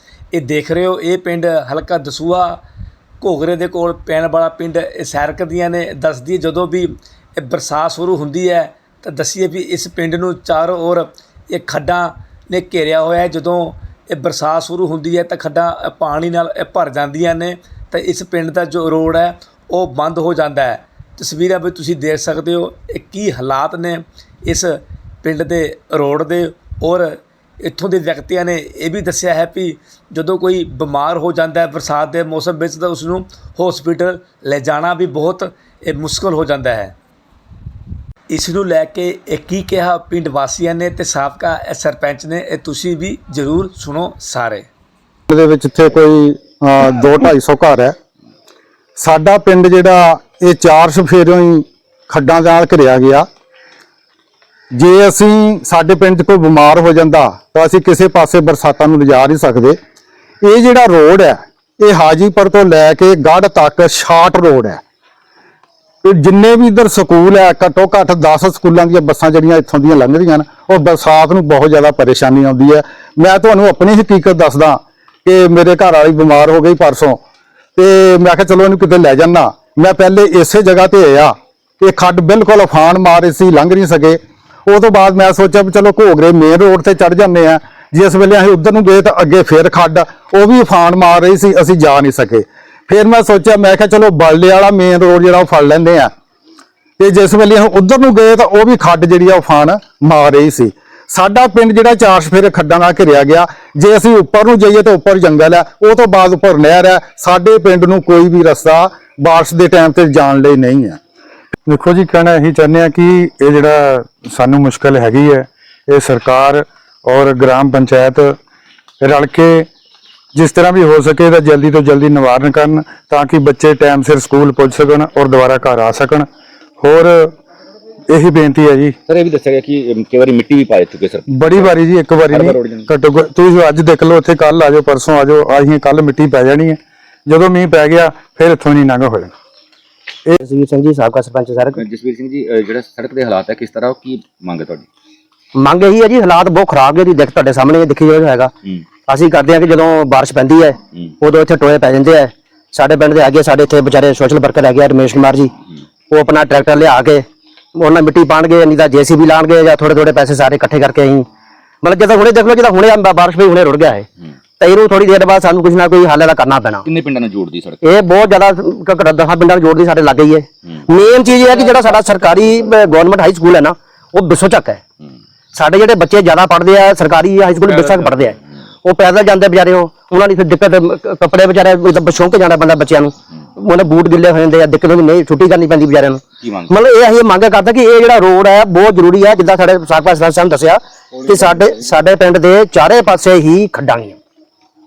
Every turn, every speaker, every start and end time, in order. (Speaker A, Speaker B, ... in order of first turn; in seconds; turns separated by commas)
Speaker A: 0.3-2.6, Speaker A: 3.2-36.9, Speaker A: 38.3-44.7, Speaker B: 45.3-48.0, Speaker B: 49.0-53.3, Speaker B: 54.8-59.8, Speaker B: 60.4-64.8, Speaker B: 66.0-77.2, Speaker B: 77.8-96.1, Speaker B: 97.0-111.0, Speaker C: 111.7-118.4, Speaker C: 119.0-119.7, Speaker C: 120.3-126.3, Speaker C: 126.8-127.3, Speaker C: 128.1-129.0, Speaker D: 129.1-131.7, Speaker C: 131.3-139.3, Speaker D: 132.3-132.9, Speaker E: 140.4-141.8, Speaker D: 141.8-144.9, Speaker E: 145.6-148.5, Speaker E: 149.0-155.5, Speaker E: 156.1-157.2, Speaker E: 157.8-161.3, Speaker E: 161.8-164.1, Speaker E: 164.6-166.9, Speaker D: 166.8-167.8, Speaker E: 167.8-174.8, Speaker E: 175.5-194.2